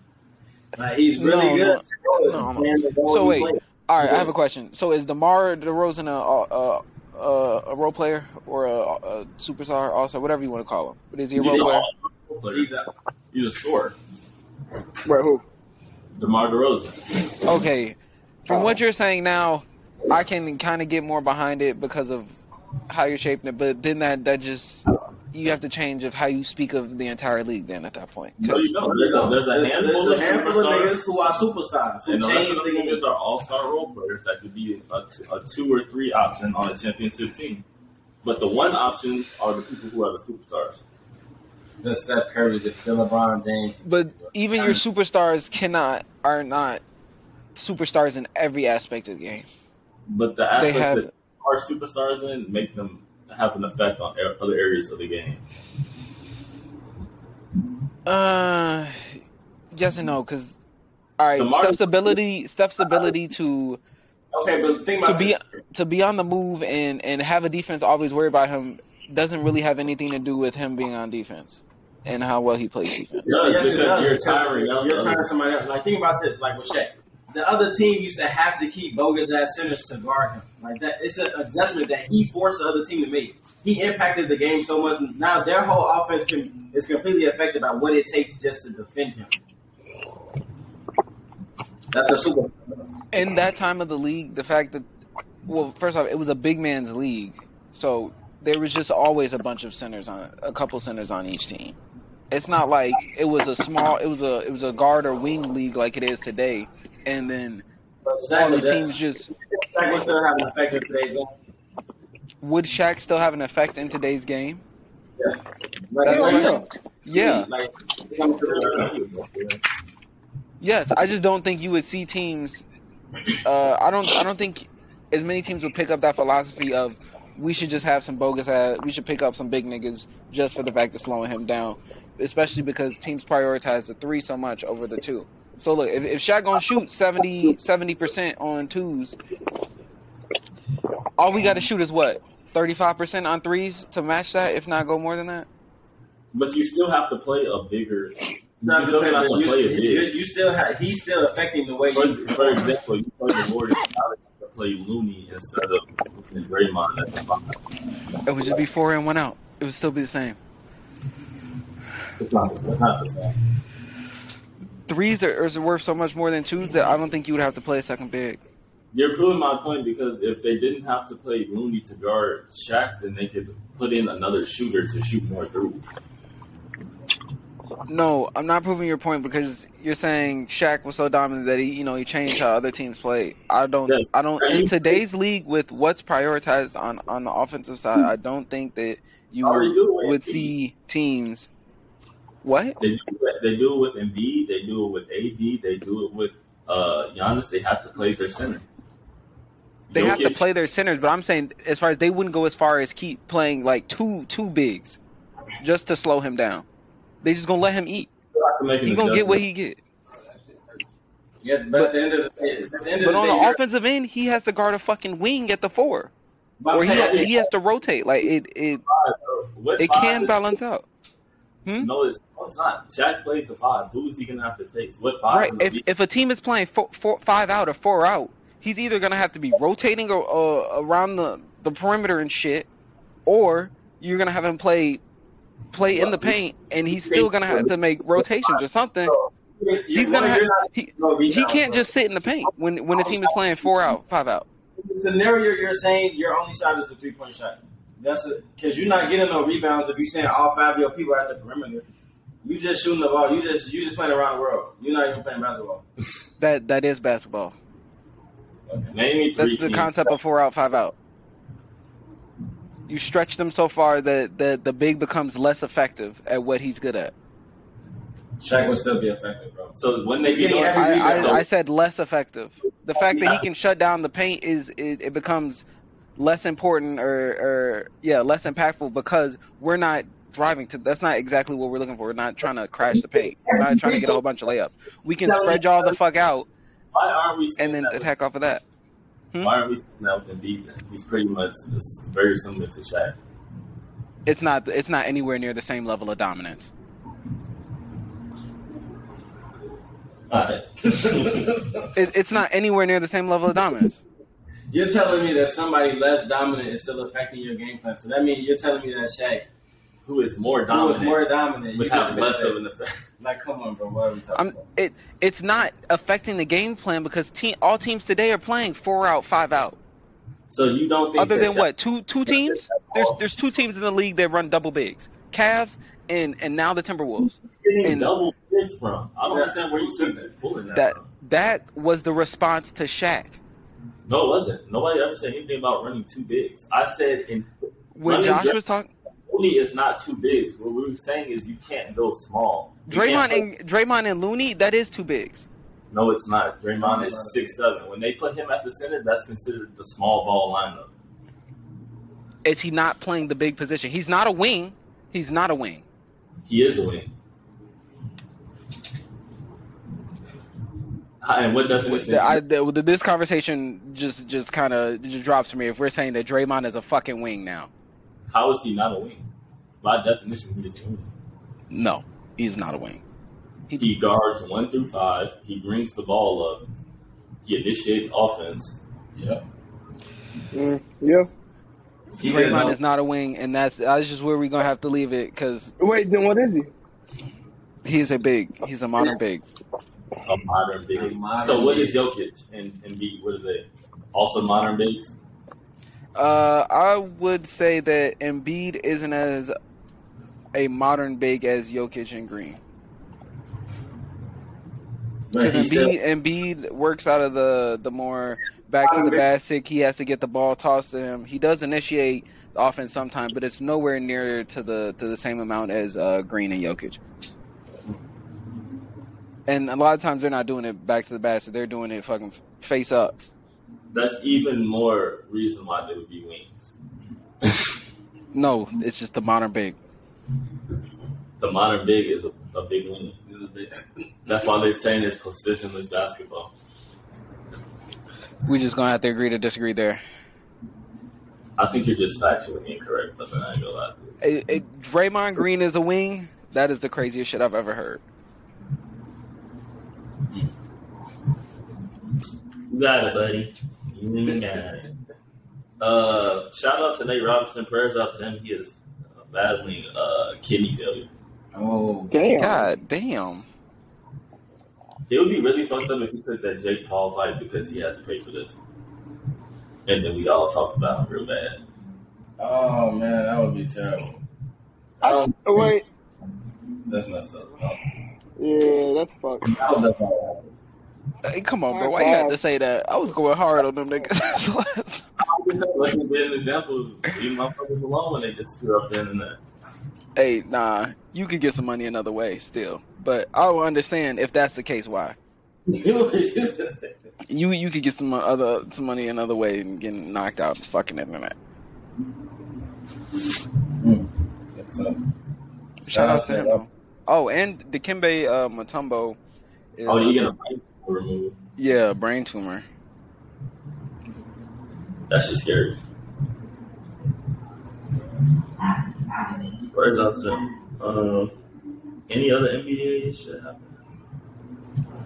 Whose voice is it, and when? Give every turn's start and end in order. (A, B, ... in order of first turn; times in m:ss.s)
0:00.8-0:04.3 A
0:01.2-0:11.9 B
0:11.4-0:12.7 C
0:12.5-0:12.9 A
0:13.3-0:14.0 C
0:15.0-0:15.4 D
0:16.2-0:17.0 C
0:17.4-0:22.4 B
0:22.9-0:28.7 B
0:28.4-0:31.0 C
0:28.8-0:33.0 A
0:32.0-0:37.7 C
0:38.2-0:40.8 C
0:41.8-0:44.8 A
0:43.8-0:46.8 B
0:47.6-0:49.5 B
0:50.1-0:55.4 C
0:50.6-0:51.1 B
0:58.1-0:59.2 B
0:59.7-1:00.6 B
1:01.2-1:03.8 B
1:01.4-1:02.1 C
1:04.3-1:05.4 A
1:05.0-1:13.2 B
1:13.2-1:29.3 A
1:13.2-1:15.3 C
1:31.9-1:32.9 A
1:33.1-1:34.9 B
1:35.5-1:41.8 B
1:42.3-1:47.6 B
1:48.0-1:51.3 A
1:48.3-1:49.3 B
1:52.4-1:54.6 B
1:55.9-1:58.9 A
1:56.0-1:57.5 B
1:58.4-1:59.6 C
2:00.6-2:02.6 B
2:03.4-2:19.2 B
2:21.2-2:25.5 B
2:26.3-2:30.1 C
2:28.6-2:32.7 A
2:31.9-2:37.6 C
2:38.3-2:40.4 B
2:42.2-2:43.3 C
2:44.9-2:48.4 B
2:48.9-2:55.9 C
2:57.9-3:11.5 B
3:03.9-3:05.0 C
3:09.4-3:10.5 C
3:12.4-3:12.8 B
3:12.8-3:18.6 C
3:19.9-3:20.4 C
3:19.9-3:25.0 B
3:25.6-3:26.6 B
3:27.2-3:28.1 B
3:28.3-3:29.4 C
3:28.8-3:29.8 B
3:31.4-3:33.6 A
3:33.0-3:36.1 B
3:36.6-3:37.4 A
3:36.7-3:38.8 B
3:36.8-3:37.4 C
3:38.8-3:40.5 C
3:39.8-3:40.9 B
3:41.8-3:45.8 C
3:45.3-3:52.7 B
3:53.3-3:55.0 B
3:55.7-3:59.2 B
3:55.9-3:56.3 C
3:56.9-3:58.5 C
3:59.6-4:01.9 A
3:59.9-4:04.4 B
4:03.0-4:03.3 A
4:04.8-4:11.8 A
4:12.4-4:15.8 A
4:16.4-4:17.6 B
4:18.7-4:18.9 A
4:18.9-4:20.1 C
4:19.4-4:20.9 B
4:22.9-4:27.1 B
4:28.4-4:31.4 A
4:29.8-4:31.4 C
4:30.8-4:46.5 B
4:32.9-4:33.4 C
4:42.9-4:44.2 A
4:45.2-4:46.0 A
4:46.9-4:48.1 C
4:47.6-4:48.6 B
4:49.4-4:53.2 C
4:54.3-4:56.7 B
5:00.3-5:01.5 C
5:01.0-5:01.7 A
5:02.0-5:04.0 B
5:04.7-5:09.4 A
5:10.0-5:11.2 C
5:10.7-5:12.6 A
5:11.8-5:13.0 C
5:13.2-5:14.6 A
5:14.3-5:19.8 B
5:20.5-5:21.7 C
5:21.2-5:28.1 B
5:22.3-5:23.2 C
5:27.5-5:31.1 C
5:29.3-5:30.3 A
5:30.8-5:33.4 B
5:34.1-5:38.6 C
5:37.9-5:38.9 B
5:39.3-5:43.4 C
5:42.9-5:45.5 B
5:45.9-5:50.9 C
5:46.8-5:47.5 A
5:52.4-5:55.8 B
5:56.4-5:57.1 C
6:01.2-6:02.4 C
6:01.9-6:07.7 B
6:08.3-6:09.3 C
6:09.8-6:11.1 C
6:11.7-6:13.0 B
6:13.8-6:16.7 C
6:17.4-6:18.8 C
6:19.2-6:19.4 A
6:20.5-6:21.3 D
6:22.2-6:22.8 A
6:22.2-6:25.7 B
6:25.8-6:26.7 D
6:27.8-6:29.4 B
6:30.2-6:35.2 C
6:30.9-6:32.0 A
6:36.2-6:39.5 B
6:40.5-6:42.6 B
6:45.3-6:45.9 A
6:45.4-6:57.0 B
6:48.8-6:49.2 A
6:59.5-7:03.2 B
7:03.9-7:06.8 C
7:08.3-7:09.8 B
7:11.4-7:13.2 C
7:13.3-7:14.0 A
7:14.3-7:16.5 C
7:18.4-7:20.0 B
7:21.6-7:24.1 C
7:24.2-7:28.0 B
7:32.7-7:34.9 C
7:35.8-7:41.1 C
7:41.5-7:42.1 A
7:42.1-7:42.7 D
7:42.4-7:43.5 B
7:45.1-7:48.6 C
7:49.9-7:51.6 C
7:52.4-7:54.2 A
7:55.0-7:55.7 A
7:55.0-7:55.8 D
7:56.9-7:57.8 A
7:58.4-7:59.7 D
7:59.4-8:00.5 A
8:01.2-8:05.1 B
8:01.7-8:02.4 D
8:05.2-8:09.4 C
8:10.2-8:15.2 B
8:15.7-8:16.9 A
8:17.3-8:21.3 B
8:23.8-8:25.0 A
8:25.8-8:29.2 B
8:25.9-8:26.6 A
8:29.8-8:30.3 B
8:29.9-8:31.4 C
8:31.6-8:32.6 B
8:35.1-8:35.8 C
8:39.7-8:41.3 C
8:42.1-8:43.7 C